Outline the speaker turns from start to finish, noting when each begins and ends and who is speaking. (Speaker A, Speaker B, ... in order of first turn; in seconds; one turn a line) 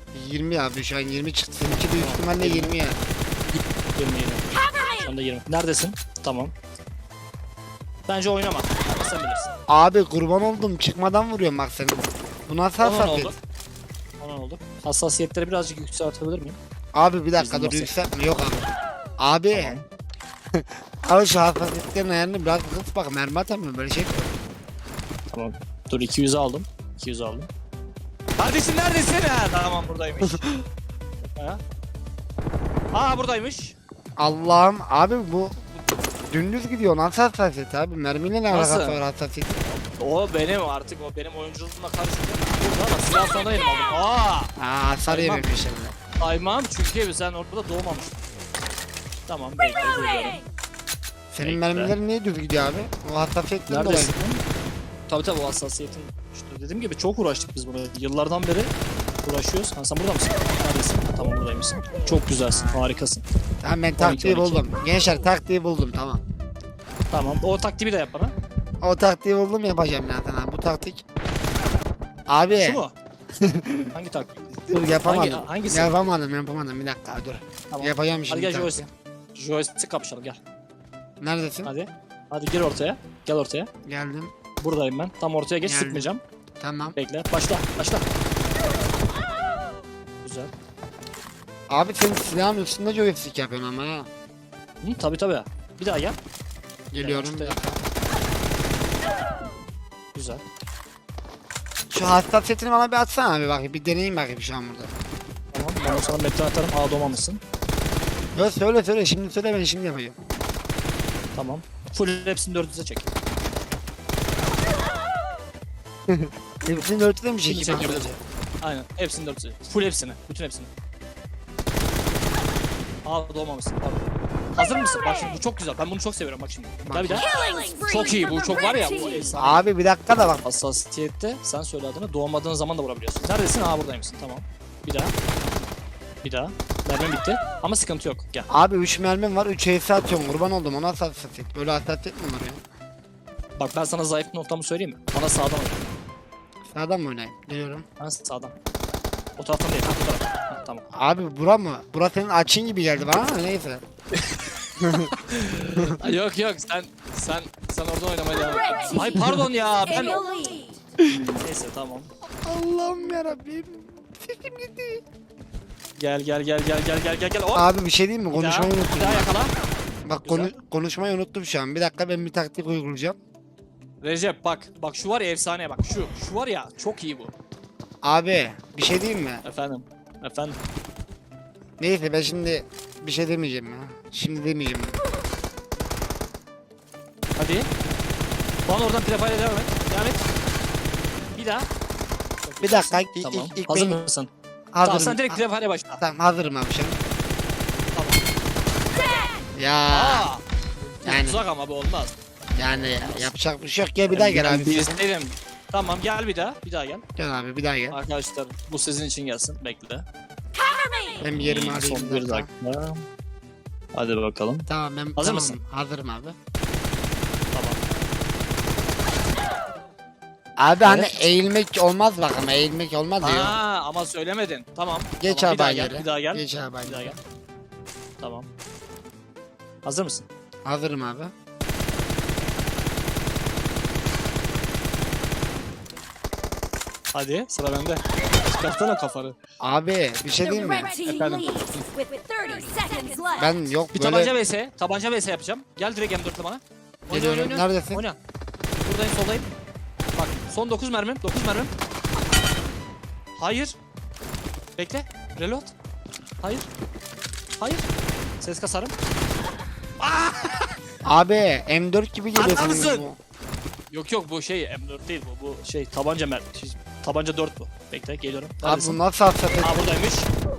Speaker A: 0.1-3.0
Speaker B: 1.9-2.7
Speaker B: 3.5-4.4
Speaker B: 5.0-6.5
Speaker B: 8.1-9.5
Speaker A: 9.7-13.3
Speaker B: 12.8-13.3
Speaker B: 14.2-16.6
Speaker A: 16.9-19.8
Speaker B: 17.4-17.9
Speaker B: 19.5-19.8
Speaker A: 20.5-24.3
Speaker B: 25.3-27.5
Speaker B: 28.4-30.4
Speaker A: 30.2-30.6
Speaker B: 31.2-31.6
Speaker B: 32.9-33.8
Speaker A: 34.2-35.6
Speaker A: 36.3-39.6
Speaker B: 38.5-39.0
Speaker B: 39.8-44.5
Speaker A: 44.6-46.0
Speaker B: 45.1-45.5
Speaker B: 46.2-48.2
Speaker B: 49.3-50.4
Speaker A: 51.3-54.1
Speaker B: 51.4-51.9
Speaker B: 53.7-54.4
Speaker B: 55.1-63.2
Speaker A: 62.5-62.8
Speaker A: 63.6-66.2
Speaker B: 64.0-64.7
Speaker B: 67.1-68.3
Speaker A: 68.8-71.0
Speaker A: 72.3-72.8
Speaker B: 72.5-72.9
Speaker A: 73.4-73.9
Speaker B: 73.9-75.9
Speaker A: 74.7-78.9
Speaker B: 77.7-78.8
Speaker B: 79.3-80.4
Speaker A: 81.2-81.7
Speaker B: 81.6-83.7
Speaker A: 83.8-84.3
Speaker B: 84.6-86.2
Speaker A: 85.6-86.1
Speaker A: 86.6-87.0
Speaker B: 87.0-88.0
Speaker B: 90.2-90.5
Speaker A: 91.7-94.1
Speaker B: 94.8-96.2
Speaker A: 96.9-97.8
Speaker B: 97.0-97.6
Speaker B: 100.1-100.4
Speaker A: 101.9-104.9
Speaker B: 105.5-107.4
Speaker A: 108.3-110.2
Speaker B: 111.3-113.1
Speaker A: 116.1-118.1
Speaker B: 117.4-120.7
Speaker B: 123.0-127.3
Speaker A: 126.9-127.3
Speaker C: 127.3-127.8
Speaker B: 127.8-129.7
Speaker A: 129.3-130.4
Speaker B: 130.4-135.1
Speaker B: 136.2-138.5
Speaker A: 138.5-142.6
Speaker B: 143.6-145.9
Speaker A: 146.7-147.8
Speaker B: 148.0-148.5
Speaker B: 149.4-150.9
Speaker A: 150.9-153.8
Speaker A: 154.8-155.1
Speaker B: 155.1-160.2
Speaker A: 155.7-156.0
Speaker C: 160.2-160.7
Speaker A: 161.0-161.3
Speaker B: 161.4-162.1
Speaker A: 162.4-165.0
Speaker B: 166.0-167.7
Speaker A: 167.5-169.3
Speaker B: 168.3-169.5
Speaker A: 170.0-173.2
Speaker B: 170.2-170.5
Speaker B: 174.0-177.3
Speaker A: 178.0-179.4
Speaker B: 179.4-180.6
Speaker A: 181.8-184.9
Speaker B: 187.4-187.7
Speaker B: 188.7-190.3
Speaker B: 191.3-191.7
Speaker B: 192.4-194.3
Speaker A: 192.6-194.0
Speaker A: 194.7-195.4
Speaker B: 194.8-196.0
Speaker A: 196.0-197.0
Speaker B: 197.9-198.2
Speaker A: 199.5-200.3
Speaker B: 199.9-200.4
Speaker A: 201.0-201.4
Speaker B: 201.0-202.1
Speaker A: 202.5-205.0
Speaker B: 202.7-203.3
Speaker B: 204.1-207.0
Speaker A: 207.2-208.0
Speaker B: 207.9-210.1
Speaker A: 211.2-212.5
Speaker B: 211.4-213.0
Speaker B: 213.9-215.6
Speaker A: 214.7-216.3
Speaker B: 217.5-217.8
Speaker A: 220.6-223.6
Speaker B: 220.8-221.2
Speaker B: 223.2-227.2
Speaker A: 225.2-227.2
Speaker B: 228.2-228.5
Speaker B: 229.8-230.3
Speaker A: 230.6-231.3
Speaker B: 237.1-239.3
Speaker A: 239.6-240.9
Speaker C: 240.6-243.3
Speaker B: 240.9-241.6
Speaker A: 243.3-244.3
Speaker B: 243.9-248.2
Speaker A: 247.1-248.0
Speaker B: 248.8-249.5
Speaker B: 250.1-251.7
Speaker B: 253.4-253.8
Speaker B: 254.8-255.7
Speaker B: 257.6-257.8
Speaker B: 258.4-258.9
Speaker B: 260.0-260.7
Speaker A: 261.0-263.2
Speaker B: 262.4-263.1
Speaker B: 263.9-269.0
Speaker A: 268.6-269.8
Speaker B: 269.6-270.3